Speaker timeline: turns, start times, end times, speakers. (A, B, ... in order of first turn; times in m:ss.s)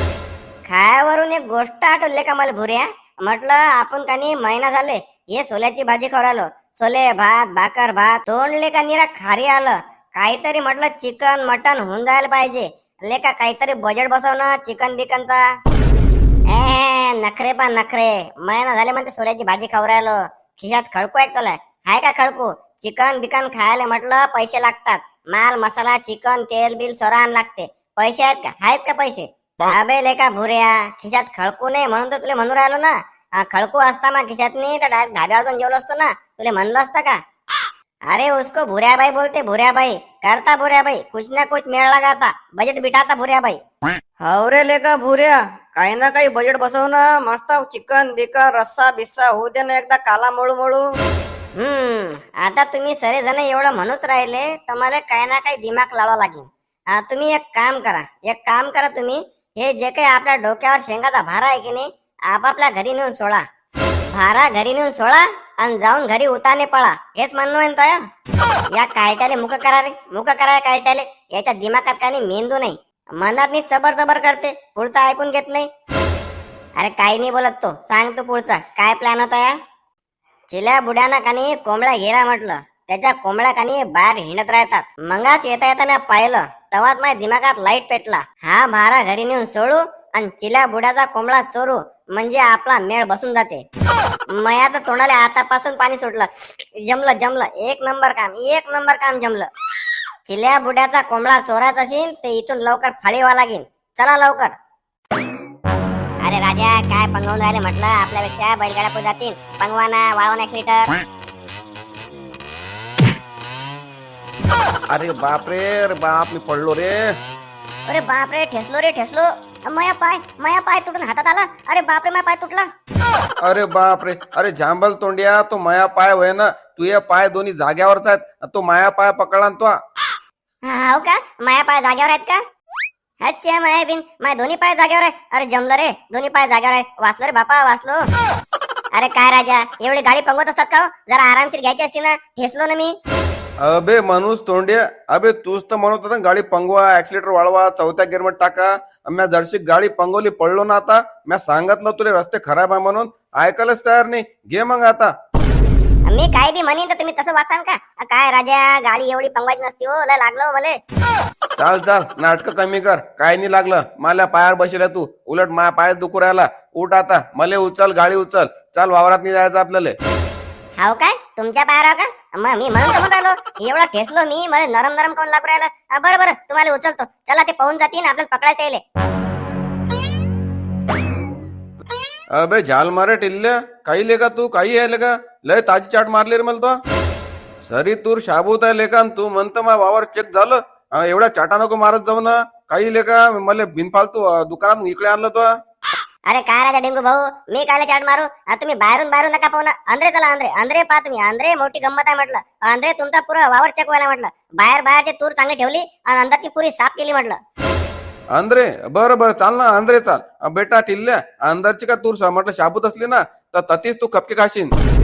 0:00.7-0:15.4 A
0:16.5-0:37.2 A
0:38.1-0:43.6 A
0:44.2-0:50.9 B
0:51.6-1:03.5 A
1:04.1-1:08.0 A
1:08.8-1:15.7 A
1:16.8-1:19.6 A
1:20.5-1:33.6 A
1:34.3-1:36.3 A
1:36.8-1:39.5 A
1:40.3-1:44.6 A
1:46.2-1:50.9 A
1:54.9-1:57.1 C
1:57.9-2:02.7 A
2:03.4-2:09.8 C
2:10.6-2:12.4 A
2:13.2-2:18.0 A
2:19.0-2:23.0 A
2:23.6-2:35.1 C
2:36.1-2:40.8 A
2:41.6-2:50.0 C
2:50.8-2:58.8 A
3:02.4-3:06.8 C
3:07.6-3:15.5 C
3:16.3-3:27.4 A
3:28.3-3:34.7 C